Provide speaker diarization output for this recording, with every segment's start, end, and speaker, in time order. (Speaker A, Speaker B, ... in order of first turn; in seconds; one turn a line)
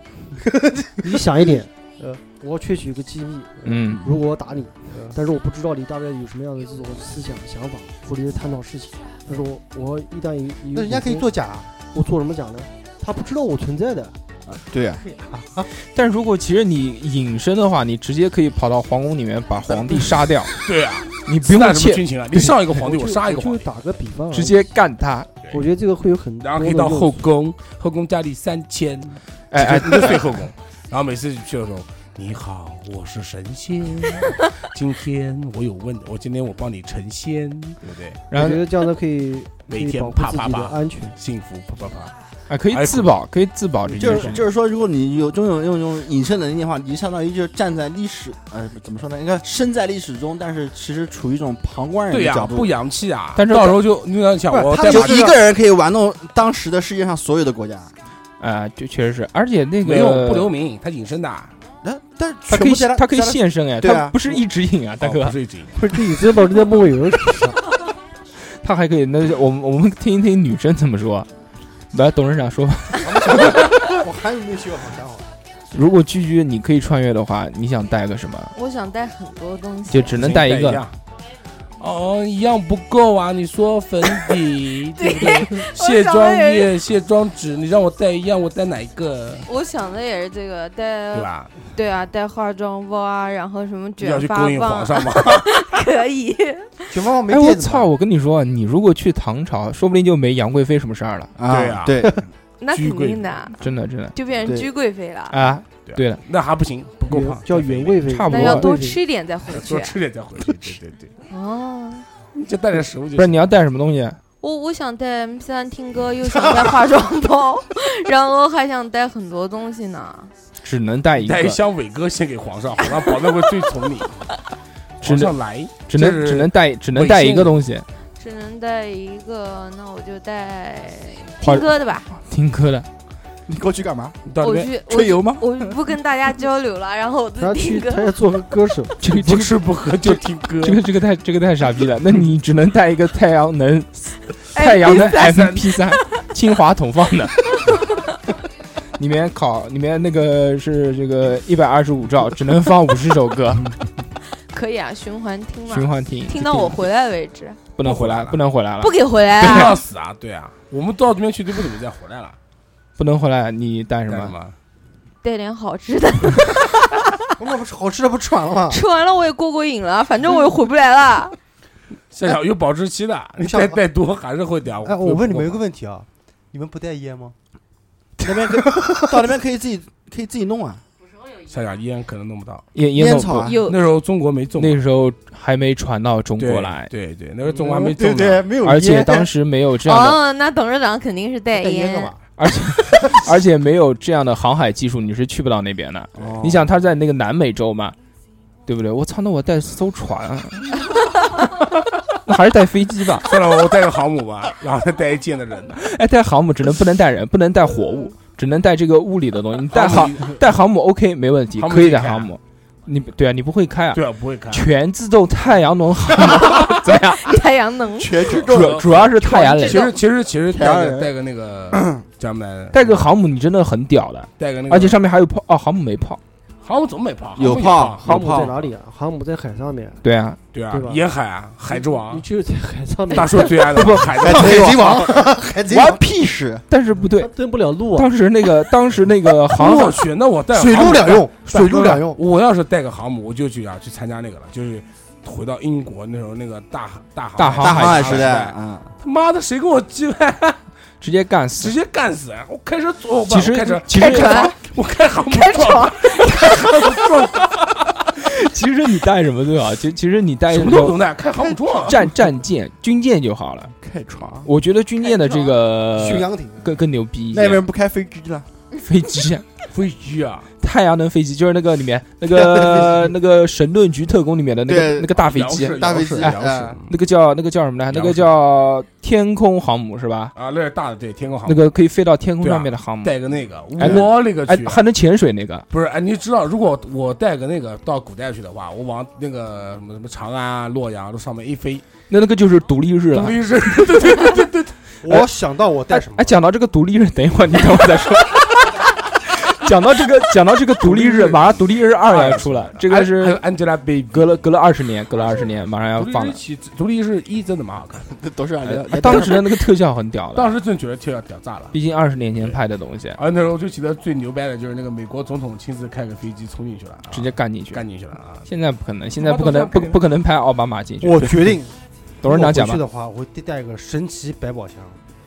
Speaker A: 0.5-1.2
Speaker B: 1.0-11.3
Speaker C: 3.6-4.1
Speaker A: 4.9-5.2
Speaker A: 10.7-11.7
Speaker B: 11.8-14.1
Speaker D: 14.5-15.0
Speaker A: 15.0-15.7
Speaker C: 15.8-20.6
Speaker E: 20.6-23.7
Speaker C: 21.2-22.5
Speaker B: 22.9-24.6
Speaker C: 24.3-25.3
Speaker B: 25.5-27.2
Speaker E: 26.4-38.2
Speaker C: 29.5-30.2
Speaker C: 38.3-38.6
Speaker B: 38.3-41.1
Speaker E: 39.7-42.1
Speaker C: 42.5-44.4
Speaker E: 42.7-43.1
Speaker E: 44.0-44.4
Speaker D: 44.0-52.7
Speaker E: 52.1-55.3
Speaker C: 53.4-53.8
Speaker A: 54.5-55.4
Speaker D: 54.8-57.9
Speaker C: 58.4-60.5
Speaker E: 59.8-61.5
Speaker D: 61.8-64.4
Speaker A: 62.5-63.0
Speaker C: 62.5-65.3
Speaker E: 65.0-65.7
Speaker B: 65.8-67.6
Speaker C: 68.6-71.3
Speaker C: 71.9-73.6
Speaker A: 73.0-75.2
Speaker C: 75.7-78.5
Speaker F: 78.5-80.2
Speaker C: 79.9-80.8
Speaker E: 80.2-80.9
Speaker E: 81.8-89.5
Speaker F: 85.0-86.7
Speaker F: 89.5-96.8
Speaker E: 91.1-91.5
Speaker E: 94.0-95.7
Speaker A: 96.9-97.9
Speaker C: 97.3-101.3
Speaker D: 101.4-102.2
Speaker E: 101.5-102.0
Speaker F: 102.6-103.6
Speaker E: 102.7-103.4
Speaker C: 103.6-104.1
Speaker F: 104.1-105.5
Speaker D: 104.4-104.7
Speaker C: 105.3-106.2
Speaker E: 105.8-108.0
Speaker B: 107.0-109.0
Speaker C: 108.0-108.7
Speaker F: 108.3-109.9
Speaker E: 109.5-111.1
Speaker F: 111.3-112.0
Speaker E: 112.3-113.4
Speaker C: 113.2-114.2
Speaker F: 114.4-120.3
Speaker C: 120.6-121.6
Speaker E: 121.2-124.2
Speaker E: 125.0-127.5
Speaker C: 125.0-125.3
Speaker C: 125.9-127.8
Speaker F: 128.2-132.1
Speaker C: 131.4-132.9
Speaker D: 133.5-134.2
Speaker E: 134.2-134.7
Speaker F: 134.4-138.2
Speaker D: 134.8-135.6
Speaker B: 137.4-138.9
Speaker C: 139.0-147.5
Speaker E: 139.0-140.8
Speaker F: 144.5-145.9
Speaker C: 149.0-153.7
Speaker F: 154.5-157.6
Speaker C: 155.7-156.8
Speaker C: 157.8-159.7
Speaker E: 157.8-158.4
Speaker F: 158.8-159.8
Speaker E: 159.4-162.4
Speaker C: 163.0-164.3
Speaker E: 164.1-164.6
Speaker F: 165.2-167.0
Speaker A: 167.4-168.8
Speaker F: 168.7-171.3
Speaker E: 172.1-175.6
Speaker A: 173.4-173.8
Speaker A: 174.8-177.3
Speaker D: 178.2-180.8
Speaker A: 178.3-179.1
Speaker E: 181.5-182.7
Speaker C: 182.7-183.5
Speaker D: 182.9-183.6
Speaker F: 183.4-183.8
Speaker E: 183.7-184.8
Speaker C: 184.6-186.9
Speaker E: 186.4-188.5
Speaker D: 187.7-188.9
Speaker A: 188.0-189.3
Speaker C: 188.6-190.2
Speaker F: 189.8-192.1
Speaker A: 191.5-192.2
Speaker C: 192.4-197.9
Speaker A: 192.9-193.2
Speaker E: 196.2-196.6
Speaker D: 196.3-196.6
Speaker C: 198.7-200.8
Speaker C: 202.2-203.3
Speaker E: 203.2-205.8
Speaker C: 205.8-217.3
Speaker E: 209.7-210.4
Speaker E: 211.6-212.3
Speaker E: 213.9-214.7
Speaker F: 216.4-218.2
Speaker D: 218.0-218.8
Speaker E: 218.2-219.1
Speaker C: 218.5-219.9
Speaker E: 219.6-223.0
Speaker D: 220.5-221.1
Speaker D: 221.7-222.0
Speaker C: 222.7-226.2
Speaker E: 224.4-225.0
Speaker E: 226.6-228.6
Speaker D: 227.3-228.5
Speaker B: 228.0-230.0
Speaker C: 230.0-230.4
Speaker E: 230.5-232.2
Speaker B: 230.7-231.0
Speaker B: 231.7-233.9
Speaker E: 233.1-234.8
Speaker A: 234.2-236.0
Speaker D: 234.2-236.6
Speaker C: 236.7-237.3
Speaker B: 237.0-238.1
Speaker C: 237.9-239.9
Speaker A: 239.6-242.2
Speaker E: 239.6-250.6
Speaker C: 247.4-248.2
Speaker D: 247.6-248.9
Speaker C: 251.0-251.7
Speaker E: 251.6-257.5
Speaker C: 253.3-254.5
Speaker F: 253.9-254.6
Speaker F: 255.3-257.3
Speaker C: 258.3-261.0
Speaker E: 260.5-262.0
Speaker C: 261.9-263.7
Speaker D: 263.8-264.4
Speaker C: 264.4-267.6
Speaker A: 265.9-266.7
Speaker D: 267.3-268.5
Speaker C: 268.8-269.4
Speaker E: 269.7-270.5
Speaker C: 270.6-280.3
Speaker A: 272.6-272.9
Speaker D: 274.7-275.1
Speaker E: 275.2-276.9
Speaker D: 275.7-276.8
Speaker E: 277.9-278.3
Speaker E: 280.3-281.7
Speaker C: 281.4-283.1
Speaker E: 282.4-284.8
Speaker C: 283.8-285.6
Speaker E: 285.7-291.8
Speaker C: 292.1-294.3
Speaker E: 293.1-294.8
Speaker A: 295.0-296.4
Speaker C: 295.9-303.4
Speaker E: 300.8-301.5
Speaker E: 302.1-304.3
Speaker C: 304.1-306.4
Speaker E: 305.2-308.1
Speaker D: 308.2-309.4
Speaker C: 308.8-310.5
Speaker E: 310.3-311.7
Speaker C: 311.7-313.2
Speaker E: 313.1-318.4
Speaker C: 317.1-317.8
Speaker C: 318.4-321.5
Speaker E: 319.2-320.0
Speaker A: 321.0-325.0
Speaker C: 322.2-322.8